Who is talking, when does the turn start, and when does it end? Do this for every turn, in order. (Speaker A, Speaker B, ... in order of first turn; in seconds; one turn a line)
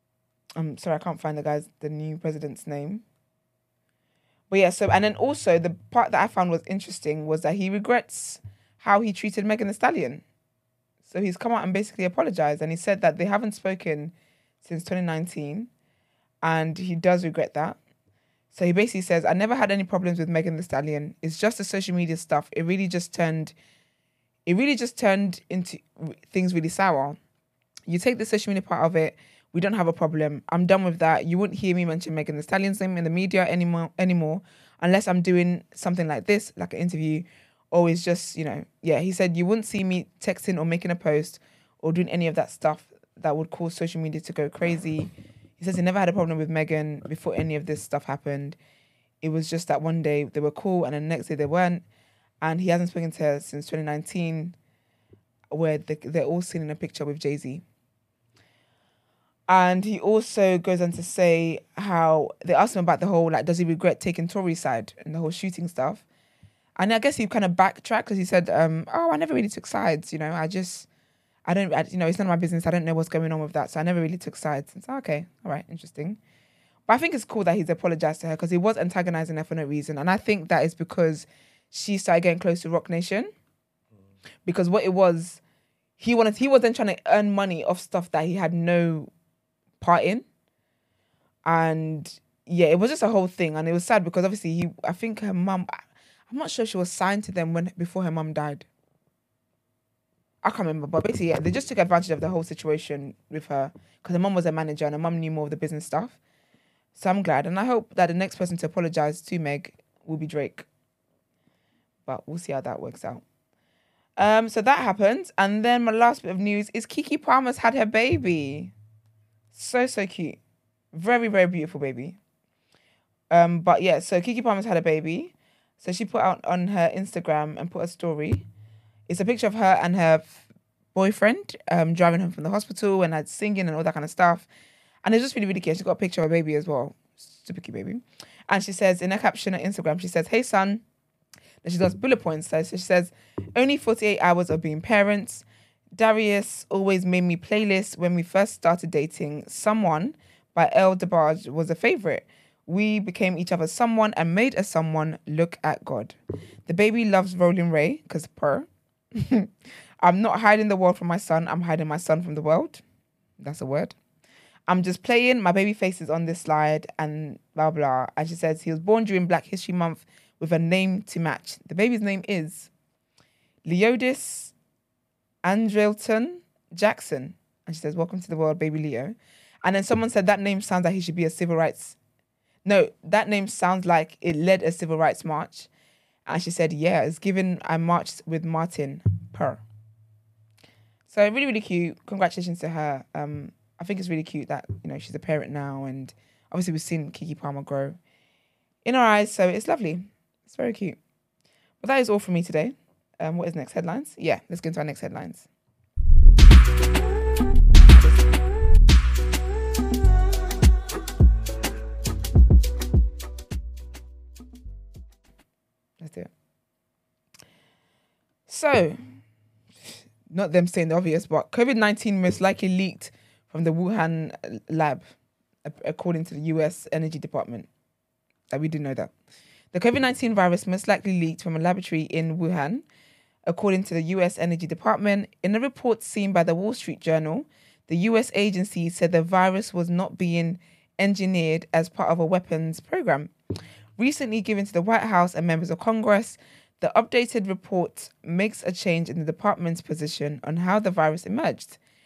Speaker A: 0.6-3.0
Speaker A: 4.5-10.2
Speaker A: 11.1-15.7
Speaker A: 16.4-17.8
Speaker A: 18.5-23.5
Speaker A: 24.5-27.2
Speaker A: 27.9-48.6
Speaker A: 49.2-51.8
Speaker A: 52.4-54.5
Speaker A: 55.5-57.6
Speaker A: 59.5-66.0
Speaker A: 66.8-70.9
Speaker A: 71.5-76.2
Speaker A: 76.9-83.3
Speaker A: 84.5-85.4
Speaker A: 86.0-89.1
Speaker A: 89.8-90.2
Speaker A: 91.5-98.7
Speaker A: 100.4-106.2
Speaker A: 107.0-110.7
Speaker A: 112.1-113.2
Speaker A: 114.2-118.7
Speaker A: 119.5-120.4
Speaker A: 120.9-122.2
Speaker A: 123.3-128.5
Speaker A: 129.1-130.4
Speaker A: 130.9-134.5
Speaker A: 135.0-140.8
Speaker A: 141.6-145.4
Speaker A: 145.9-156.2
Speaker A: 156.7-159.5
Speaker A: 160.0-162.8
Speaker A: 163.4-164.0
Speaker A: 164.7-172.7
Speaker A: 173.7-174.5
Speaker A: 175.4-182.0
Speaker A: 182.7-185.7
Speaker A: 186.3-189.6
Speaker A: 191.1-198.0
Speaker A: 198.8-201.0
Speaker A: 201.8-205.5
Speaker A: 207.9-208.3
Speaker A: 216.0-216.3
Speaker A: 218.5-219.0
Speaker A: 220.3-225.1
Speaker A: 225.7-227.7
Speaker A: 228.5-229.1
Speaker A: 229.7-232.8
Speaker A: 233.5-243.3
Speaker A: 244.0-251.8